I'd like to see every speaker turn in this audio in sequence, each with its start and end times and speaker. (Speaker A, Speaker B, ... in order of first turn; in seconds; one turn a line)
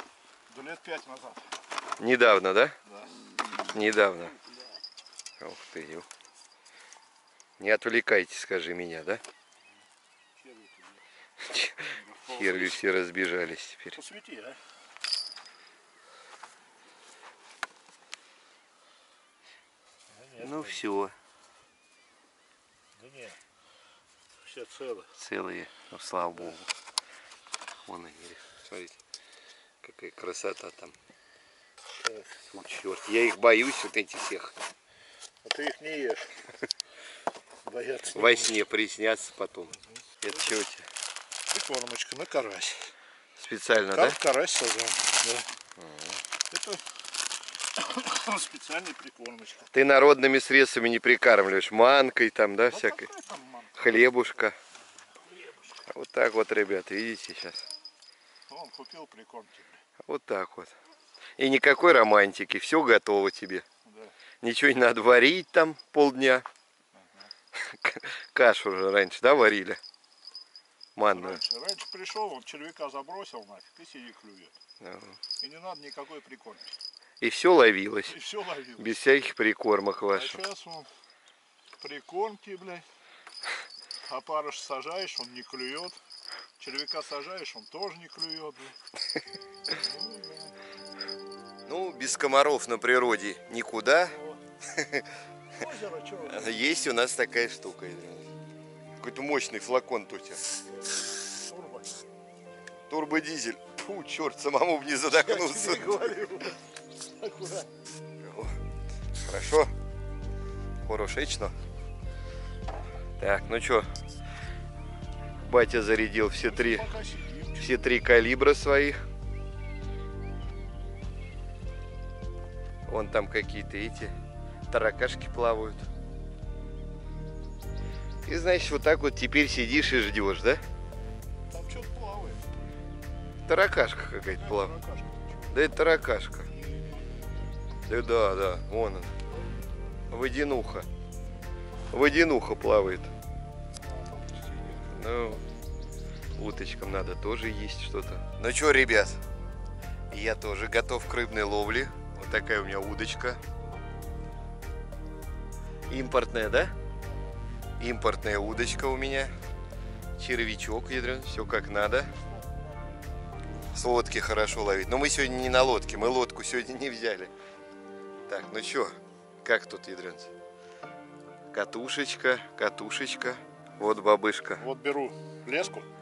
Speaker A: 0.5-1.4
Speaker B: 2.0-2.8
Speaker A: 2.9-3.1
Speaker B: 3.6-4.3
Speaker B: 5.4-6.1
Speaker B: 7.6-9.2
Speaker A: 10.4-11.0
Speaker B: 11.4-14.0
Speaker A: 11.9-12.8
Speaker A: 13.9-14.6
Speaker A: 20.1-20.8
Speaker B: 20.4-21.1
Speaker A: 23.0-23.4
Speaker A: 24.4-25.1
Speaker B: 25.2-26.7
Speaker B: 27.9-29.0
Speaker B: 29.8-30.9
Speaker A: 32.0-32.3
Speaker B: 32.5-34.6
Speaker A: 35.4-36.3
Speaker A: 37.6-38.6
Speaker B: 38.1-40.9
Speaker A: 41.5-42.9
Speaker B: 43.4-44.2
Speaker A: 43.9-45.5
Speaker B: 45.8-46.2
Speaker A: 46.5-46.8
Speaker A: 47.8-49.7
Speaker B: 49.7-53.1
Speaker A: 52.6-53.8
Speaker B: 53.8-54.6
Speaker A: 55.2-55.8
Speaker B: 55.9-57.6
Speaker A: 58.5-59.8
Speaker B: 60.0-60.8
Speaker B: 61.4-63.6
Speaker A: 63.9-64.1
Speaker B: 64.4-66.5
Speaker A: 66.9-67.3
Speaker B: 67.6-69.8
Speaker B: 71.0-71.4
Speaker A: 71.1-74.6
Speaker B: 74.8-75.2
Speaker A: 75.4-76.7
Speaker B: 77.2-78.2
Speaker A: 78.1-79.0
Speaker B: 78.8-80.4
Speaker A: 80.1-80.9
Speaker A: 81.8-82.9
Speaker A: 84.1-86.0
Speaker A: 86.6-88.8
Speaker A: 89.7-90.6
Speaker B: 91.7-94.2
Speaker A: 94.1-94.4
Speaker B: 94.7-95.1
Speaker A: 95.5-96.7
Speaker B: 96.2-98.3
Speaker B: 99.0-100.4
Speaker A: 100.7-102.0
Speaker B: 102.9-106.2
Speaker A: 105.2-106.6
Speaker A: 107.2-107.7
Speaker B: 108.2-108.6
Speaker B: 109.2-109.7
Speaker B: 110.8-111.5
Speaker B: 113.2-113.9
Speaker B: 115.4-116.9
Speaker A: 116.4-117.9
Speaker B: 117.6-119.0
Speaker B: 122.9-124.1
Speaker B: 124.7-125.9
Speaker B: 128.3-130.6
Speaker A: 131.5-132.4
Speaker B: 133.5-134.7
Speaker A: 134.4-135.6
Speaker B: 135.5-136.5
Speaker A: 136.6-136.9
Speaker B: 137.9-139.1
Speaker B: 140.1-140.9
Speaker B: 141.9-143.1
Speaker A: 143.8-145.0
Speaker B: 144.9-145.4
Speaker B: 146.4-149.2
Speaker B: 150.1-153.4
Speaker B: 155.9-156.7
Speaker B: 157.8-159.3
Speaker B: 160.2-162.1
Speaker B: 163.7-167.3
Speaker B: 168.3-170.3
Speaker B: 171.5-174.6
Speaker A: 174.6-175.9